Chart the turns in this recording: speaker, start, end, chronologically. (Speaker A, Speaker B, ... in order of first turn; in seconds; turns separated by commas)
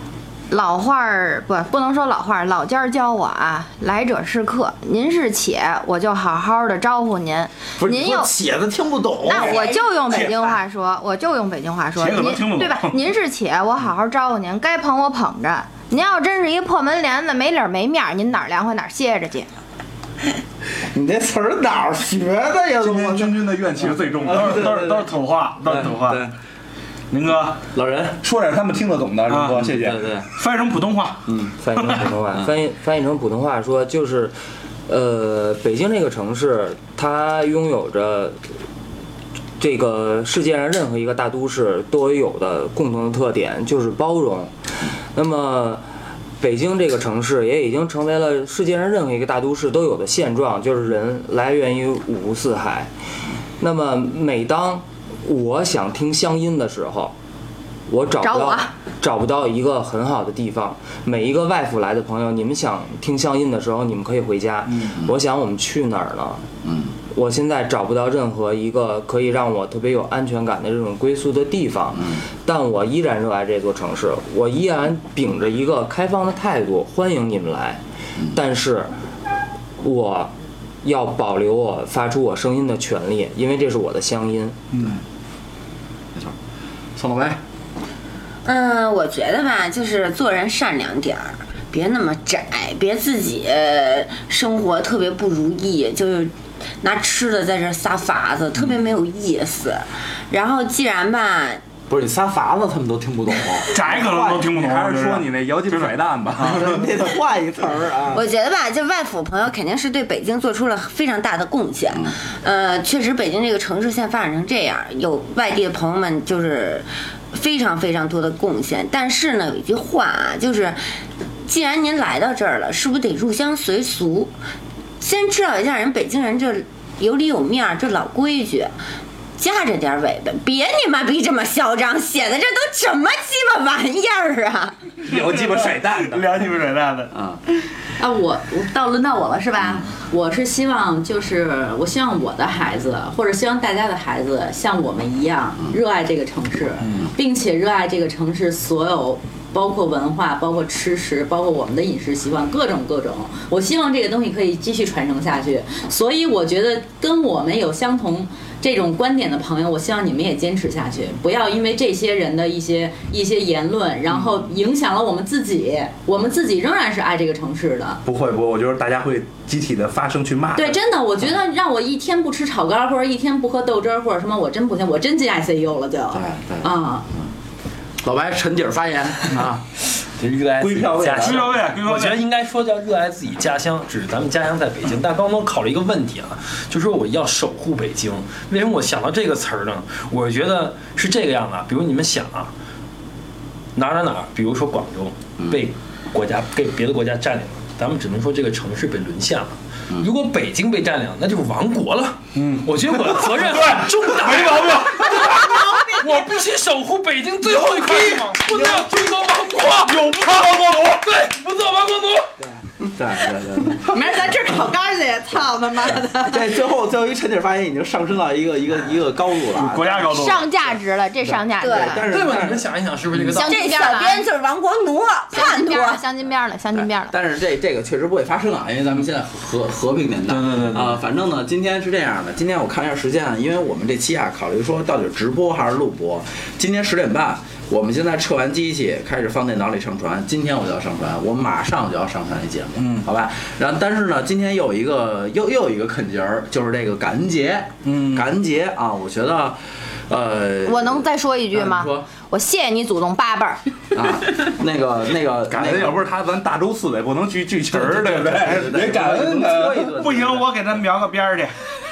Speaker A: 0.5-8.3, Speaker B: 7.8-10.3, Speaker A: 9.2-19.5, Speaker C: 10.1-10.3, Speaker C: 12.0-13.0, Speaker B: 20.9-25.1, Speaker D: 22.8-24.7, Speaker C: 24.2-26.2, Speaker B: 25.6-26.3, Speaker C: 27.1-27.6, Speaker B: 27.7-28.2, Speaker D: 28.2-30.0, Speaker C: 29.3-29.6, Speaker B: 29.6-30.3, Speaker C: 30.3-32.1, Speaker B: 31.2-31.5, Speaker E: 31.6-34.4, Speaker E: 34.9-38.4, Speaker E: 39.6-44.5, Speaker E: 45.1-45.8, Speaker E: 46.4-52.9, Speaker E: 53.6-57.1, Speaker E: 57.9-66.4, Speaker A: 58.2-58.7, Speaker B: 66.6-66.9, Speaker E: 67.1-77.8, Speaker E: 78.3-78.9, Speaker E: 79.8-80.3, Speaker E: 80.8-84.6, Speaker C: 84.7-85.0, Speaker B: 87.0-87.4, Speaker F: 88.5-101.6, Speaker B: 101.9-104.3, Speaker C: 103.7-106.5, Speaker D: 104.0-106.8, Speaker B: 106.4-108.2, Speaker F: 108.1-120.8, Speaker F: 121.5-124.3, Speaker F: 125.0-128.7, Speaker F: 129.4-134.8, Speaker D: 135.1-136.2, Speaker C: 135.1-137.1, Speaker B: 137.1-137.4, Speaker G: 138.0-168.0, Speaker D: 168.0-170.8, Speaker G: 170.6-177.1, Speaker B: 176.1-177.3, Speaker B: 178.0-179.7, Speaker H: 180.2-192.5, Speaker D: 180.6-181.6, Speaker C: 181.2-182.2, Speaker H: 193.7-210.2, Speaker B: 195.4-195.7, Speaker C: 202.3-205.5, Speaker B: 208.5-208.9, Speaker C: 209.8-211.0, Speaker H: 210.8-212.3, Speaker B: 212.4-214.2, Speaker G: 213.9-216.4, Speaker B: 216.2-220.1, Speaker C: 219.5-220.4, Speaker A: 220.1-222.1, Speaker F: 221.6-222.0, Speaker B: 221.6-222.7, Speaker H: 222.1-223.6, Speaker A: 223.2-224.2, Speaker F: 223.4-226.0, Speaker A: 225.3-227.1, Speaker B: 226.7-252.1, Speaker C: 230.3-231.0, Speaker C: 242.8-243.1, Speaker C: 247.9-248.2, Speaker A: 250.6-253.6, Speaker B: 253.9-256.0, Speaker D: 255.5-260.0, Speaker B: 257.7-260.7, Speaker C: 259.9-261.5